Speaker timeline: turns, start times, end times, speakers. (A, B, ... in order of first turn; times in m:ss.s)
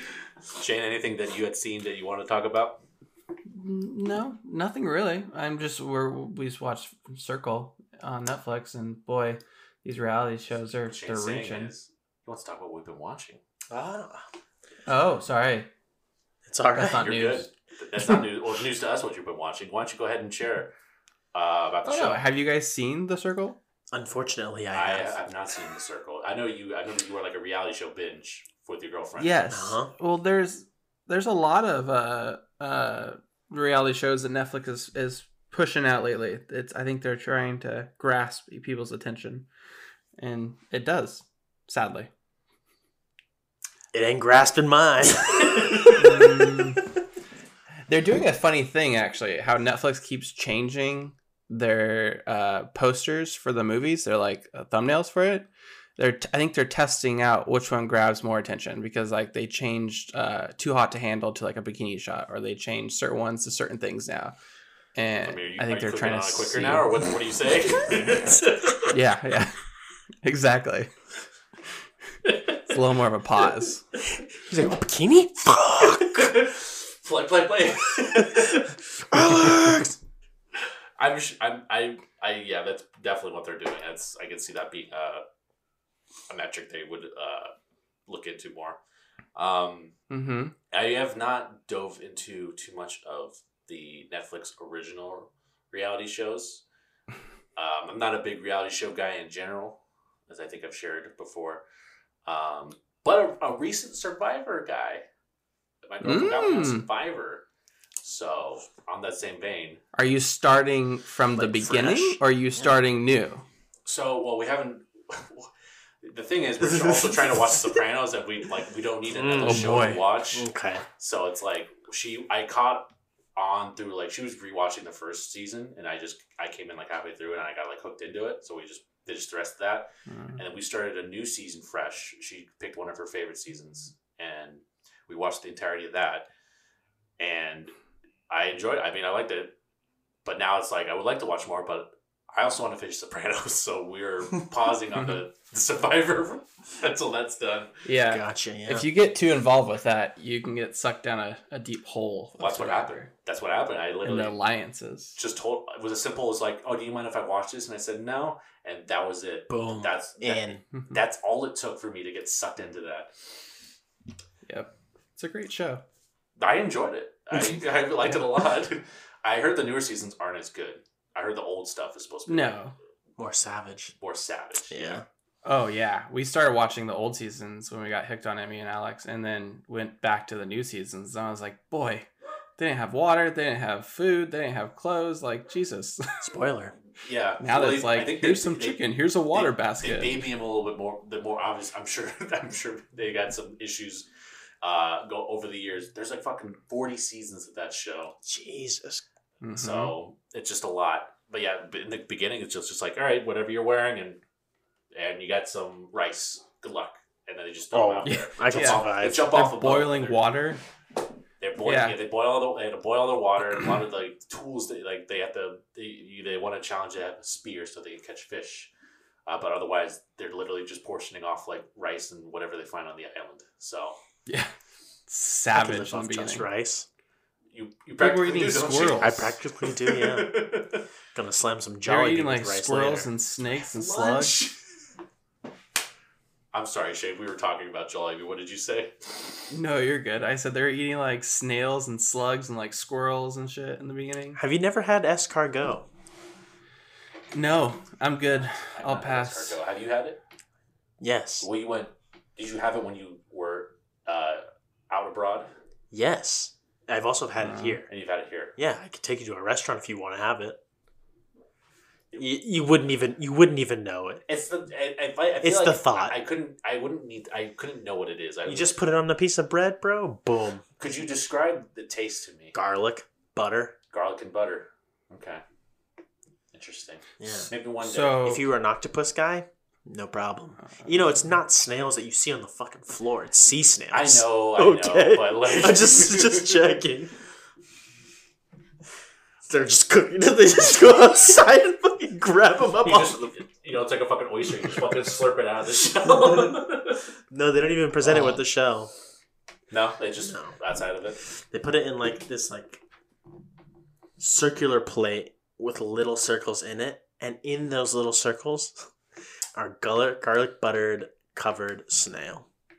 0:00.5-0:02.8 A
0:03.5-0:11.7 B
0:10.9-0:13.4 A
0:13.7-0:14.2 C
0:14.9-0:15.7 B
0:16.4-0:17.1 C
0:16.7-0:17.5 B
0:17.0-0:20.7 A
0:21.3-0:22.2 A
0:21.8-0:23.6 B
0:23.9-0:25.2 C
0:24.7-0:29.4 A
0:29.2-0:39.5 B
0:29.5-0:29.9 C
0:40.2-0:42.1 B
0:43.9-0:46.5 C
0:46.0-0:46.8 B
0:47.9-1:04.4 B
1:05.0-1:06.9 B
1:05.2-1:08.9 A
1:08.9-1:09.5 B
1:10.2-1:10.9 B
1:12.7-1:13.8 B
1:14.4-1:16.4 C
1:15.8-1:18.7 A
1:18.2-1:18.6 C
1:19.1-1:20.0 C
1:21.0-1:25.2 A
1:26.3-1:27.5 A
1:28.1-1:28.8 A
1:29.4-1:30.0 A
1:30.1-1:30.6 B
1:30.7-1:36.6 A
1:37.6-1:41.6 A
1:42.3-1:45.0 A
1:45.8-1:47.4 A
1:46.0-1:46.9 B
1:48.0-1:49.8 A
1:49.9-1:53.4 B
1:51.4-1:52.7 C
1:53.9-1:55.5 A
1:56.0-2:00.5 A
1:56.6-1:57.7 C
1:59.1-2:00.9 C
1:59.4-2:00.0 B
2:01.0-2:16.3 A
2:10.1-2:10.4 B
2:17.2-2:17.7 A
2:18.3-2:19.5 A
2:20.2-2:27.7 A
2:25.0-2:25.2 B
2:27.8-2:33.1 B
2:28.1-2:28.9 C
2:32.4-2:34.4 A
2:34.0-2:35.2 B
2:35.2-2:43.1 A
2:39.5-2:40.6 C
2:44.5-2:45.8 B
2:46.4-2:52.6 A
2:52.3-2:52.8 B
2:53.2-2:53.9 C
2:54.0-2:55.0 A
2:54.7-2:55.0 C
2:55.4-3:06.0 B
3:06.2-3:06.8 C
3:07.0-3:14.1 A
3:07.4-3:10.2 B
3:14.6-3:18.2 A
3:18.2-3:19.0 C
3:19.4-3:19.9 B
3:19.6-3:24.2 A
3:24.9-3:30.3 A
3:27.7-3:29.3 C
3:28.0-3:30.6 B
3:31.4-3:38.7 A
3:31.6-3:32.0 B
3:39.3-3:44.0 A
3:44.3-3:44.5 B
3:45.1-3:46.5 B
3:45.5-3:46.9 C
3:47.5-3:50.8 A
3:48.0-3:49.3 B
3:49.0-3:50.4 C
3:51.1-3:53.1 C
3:51.8-3:54.4 B
3:53.6-3:54.6 A
3:56.5-3:59.2 A
3:59.5-4:04.4 B
4:04.4-4:05.9 C
4:07.3-4:09.6 B
4:08.4-4:10.2 A
4:11.0-4:11.5 C
4:11.4-4:15.5 A
4:15.9-4:17.9 C
4:17.4-4:17.8 B
4:17.9-4:18.6 A
4:18.6-4:20.6 C
4:22.2-4:24.2 C
4:24.3-4:28.8 A
4:25.4-4:26.2 C
4:28.5-4:30.6 C
4:30.8-4:32.6 A
4:32.5-4:33.8 C
4:33.9-4:35.4 A
4:36.5-4:38.2 A
4:37.2-4:37.5 C
4:37.3-4:38.4 B
4:38.2-4:47.1 C
4:40.6-4:41.2 B
4:43.9-4:46.6 A
4:49.4-4:53.3 C
4:52.8-4:57.1 A
4:57.3-4:58.9 C
4:59.7-5:01.2 A
5:00.2-5:00.5 C
5:01.5-5:02.8 C
5:04.2-5:08.9 C
5:09.6-5:12.5 C